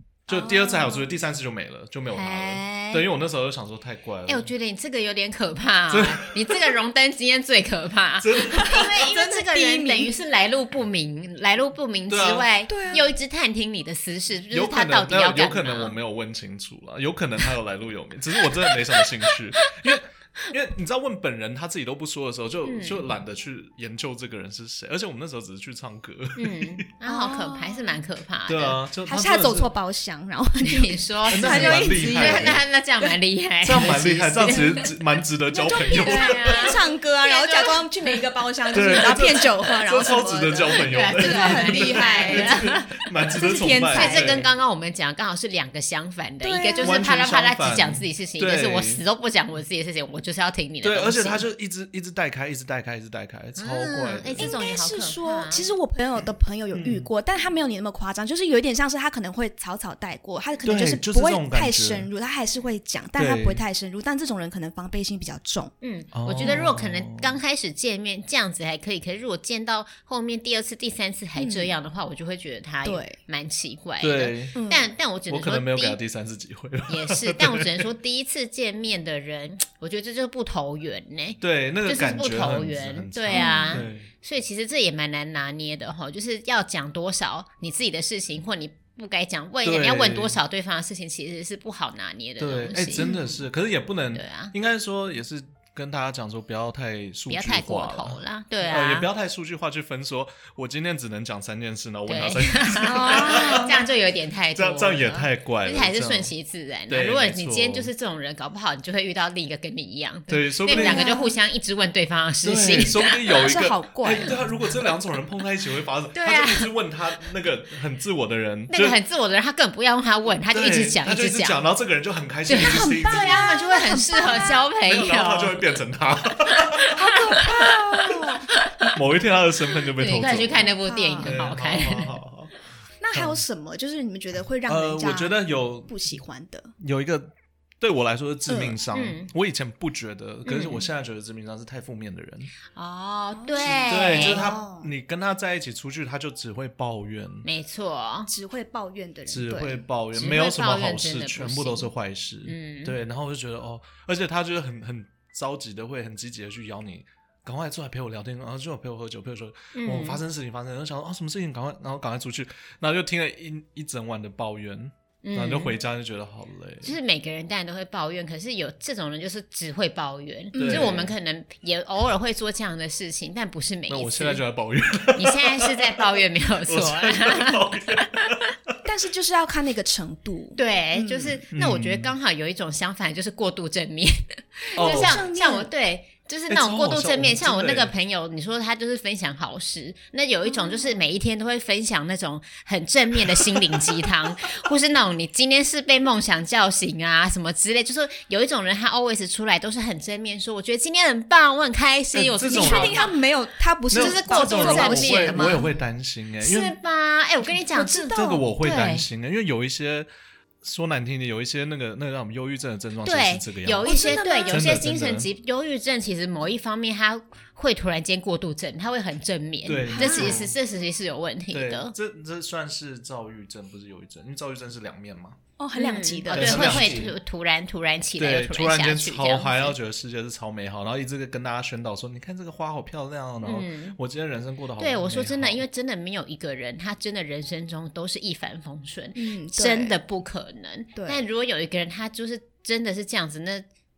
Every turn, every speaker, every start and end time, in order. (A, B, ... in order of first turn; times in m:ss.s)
0:00.3-0:04.5 A
0:00.3-0:01.0 B
0:02.1-0:03.1 C
0:04.2-0:15.9 C
0:05.9-0:06.6 A
0:08.2-0:09.0 A
0:08.5-0:10.1 B
0:12.1-0:12.5 A
0:12.7-0:13.1 B
0:14.5-0:26.8 A
0:18.7-0:19.8 C
0:22.6-0:23.0 C
0:26.4-0:28.8 C
0:27.0-0:28.0 B
0:28.5-0:29.7 A
0:29.0-0:33.1 B
0:30.6-0:34.9 C
0:31.3-0:32.6 A
0:33.6-0:36.8 A
0:35.5-0:42.7 B
0:35.7-0:39.2 C
0:38.7-0:44.5 A
0:40.7-0:43.0 C
0:43.4-0:44.4 B
0:43.9-0:51.4 C
0:46.4-0:47.0 B
0:46.8-0:49.0 A
0:50.8-0:54.5 A
0:53.6-0:55.7 C
0:54.4-1:05.7 B
0:56.7-0:57.1 A
1:00.6-1:02.1 A
1:03.2-1:03.6 A
1:05.8-1:16.0 C
1:06.1-1:07.4 A
1:11.4-1:11.7 B
1:12.8-1:13.2 B
1:14.0-1:14.5 A
1:14.5-1:14.9 B
1:15.3-1:17.9 A
1:16.9-1:33.1 C
1:21.4-1:24.1 A
1:23.3-1:23.8 B
1:29.6-1:30.4 A
1:32.4-1:43.8 A
1:33.0-1:33.4 B
1:34.1-1:34.5 C
1:37.3-1:39.1 C
1:42.1-1:53.4 C
1:42.8-1:43.8 B
1:44.5-1:46.3 A
1:46.9-1:47.9 A
1:50.3-1:51.1 A
1:50.7-1:51.3 B
1:52.4-1:59.0 A
1:53.3-1:54.4 B
1:56.1-1:56.7 C
1:58.7-2:01.6 C
2:00.5-2:03.4 A
2:02.5-2:05.6 C
2:02.6-2:04.6 B
2:04.8-2:07.0 A
2:06.7-2:08.9 C
2:06.9-2:08.5 B
2:08.9-2:12.5 A
2:10.0-2:12.1 C
2:10.8-2:11.4 B
2:13.0-2:16.7 B
2:13.1-2:13.4 A
2:14.7-2:15.9 A
2:16.8-2:22.5 A
2:18.5-2:18.8 B
2:18.9-2:19.3 C
2:20.4-2:20.8 C
2:22.7-2:24.4 C
2:23.4-2:24.9 B
2:23.6-2:27.4 A
2:27.4-2:28.3 C
2:28.3-2:29.8 B
2:29.3-2:47.0 A
2:30.1-2:31.9 C
2:32.4-2:33.0 C
2:39.7-2:40.2 C
2:45.2-2:45.7 C
2:46.8-2:54.4 C
2:50.5-2:50.9 B
2:50.5-2:51.1 A
2:53.9-2:58.7 A
2:55.2-2:58.2 C
2:58.8-3:01.4 B
3:00.6-3:23.2 C
3:01.5-3:02.1 A
3:04.7-3:05.7 B
3:04.8-3:05.2 A
3:06.5-3:07.9 A
3:10.5-3:11.0 B
3:22.1-3:23.0 A
3:22.4-3:25.7 B
3:23.9-3:26.8 A
3:23.9-3:25.6 C
3:26.4-3:29.0 C
3:27.6-3:28.5 B
3:28.1-3:30.1 A
3:30.6-3:35.3 A
3:33.0-3:41.9 C
3:33.8-3:34.6 B
3:39.6-3:40.6 A
3:39.9-3:40.4 B
3:41.5-3:45.4 A
3:45.6-3:46.9 B
3:45.7-3:49.8 C
3:46.3-3:47.1 A
3:48.2-3:55.6 A
3:53.4-3:54.0 C
3:54.8-4:03.6 C
3:59.2-4:00.0 B
4:00.9-4:01.2 B